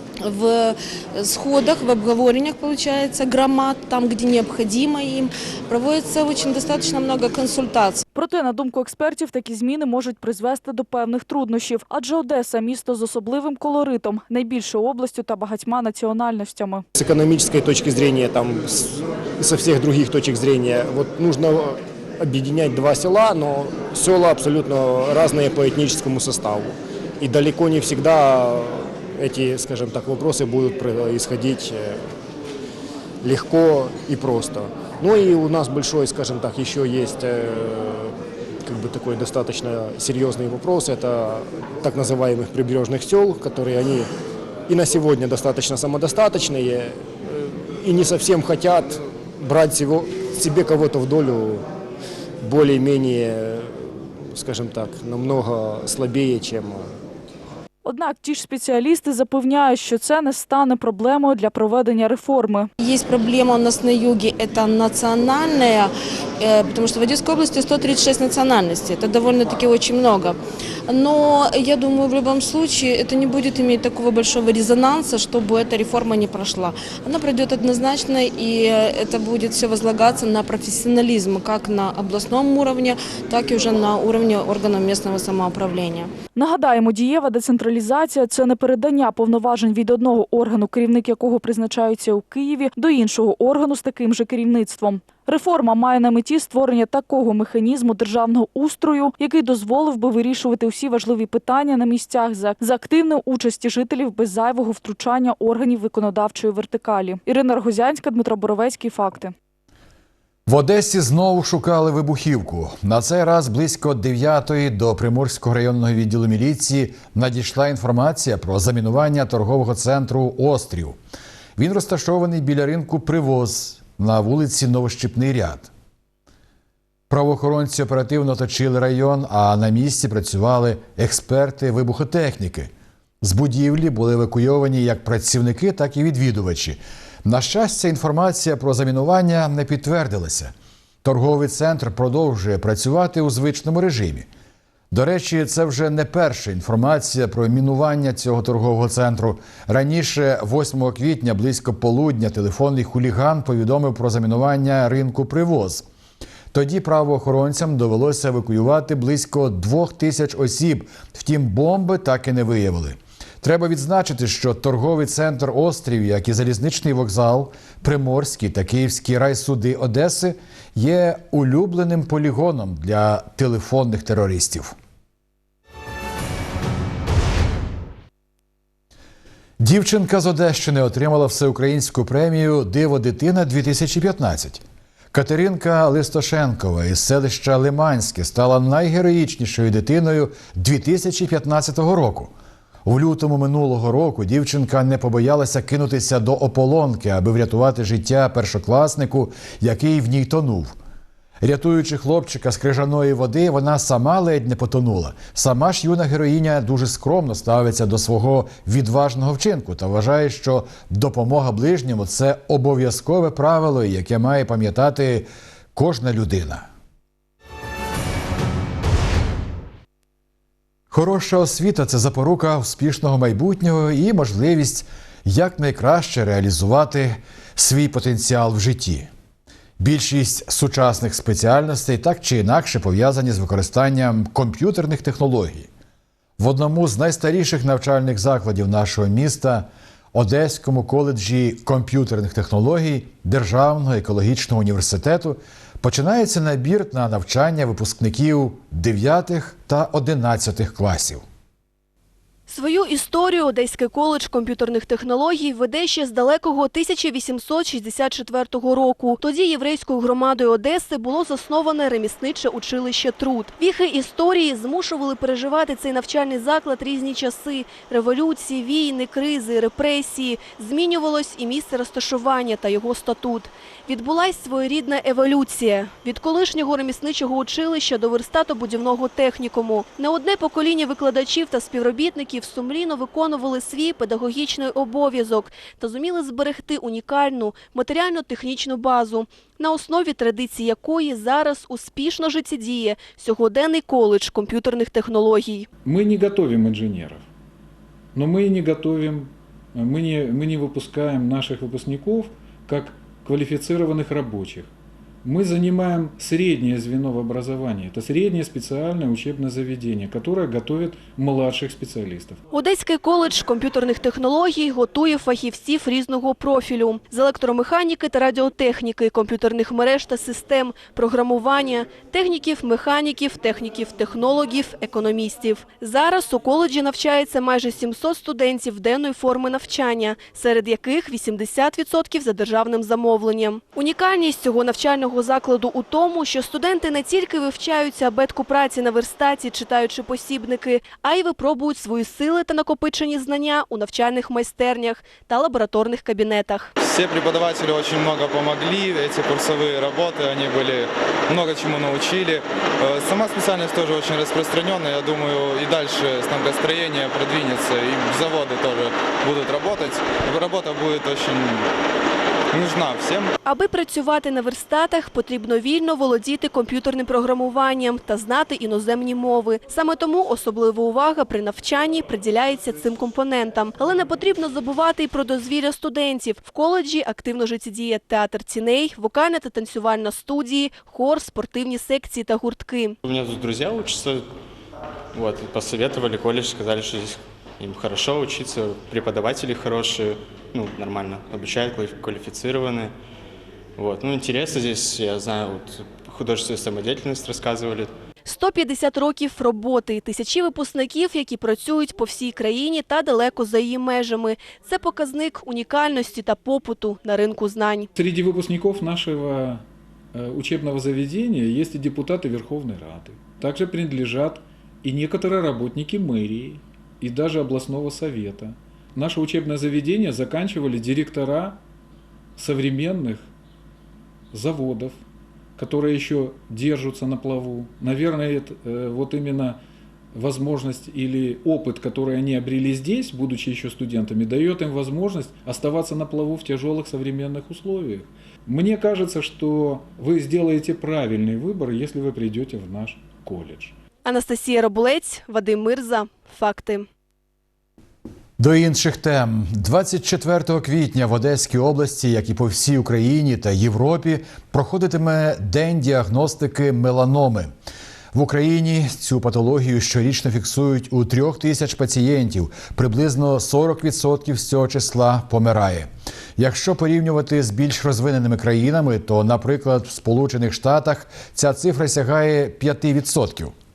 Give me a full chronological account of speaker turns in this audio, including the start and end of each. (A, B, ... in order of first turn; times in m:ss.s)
0:00.2-0:08.0 A
0:08.1-0:16.8 B
0:17.0-0:32.0 C
0:33.2-0:38.1 C
0:38.6-0:44.1 C
0:44.7-0:51.6 C
0:52.4-0:56.9 C
0:57.8-1:02.7 B
1:02.8-1:26.1 A
1:26.3-1:49.3 B
1:50.5-2:01.0 D
2:01.6-2:05.7 D
2:07.1-2:20.5 D
2:21.0-2:24.3 D
2:24.9-2:35.8 D
2:36.5-2:54.8 D
2:59.6-3:12.3 D
3:12.8-3:20.8 D
3:21.4-3:36.7 D
3:40.9-3:49.1 D
3:49.8-3:55.7 D
3:56.4-4:11.2 D
4:12.5-4:55.7 E
4:55.8-4:57.3 F
4:58.1-5:04.7 F
5:05.2-5:12.4 F
5:12.5-5:46.7 E
5:46.8-6:01.7 G
6:02.5-6:03.3 G
6:03.4-6:23.0 E
6:23.0-6:24.2 H
6:25.1-6:32.9 H
6:33.8-6:37.9 H
6:38.2-6:47.9 E
6:47.9-7:01.6 F
7:02.4-7:03.3 F
7:04.3-7:05.0 F
7:05.6-7:09.6 F
7:10.1-7:23.7 F
7:24.0-7:26.9 E
7:28.4-7:37.5 D
7:38.1-7:53.5 D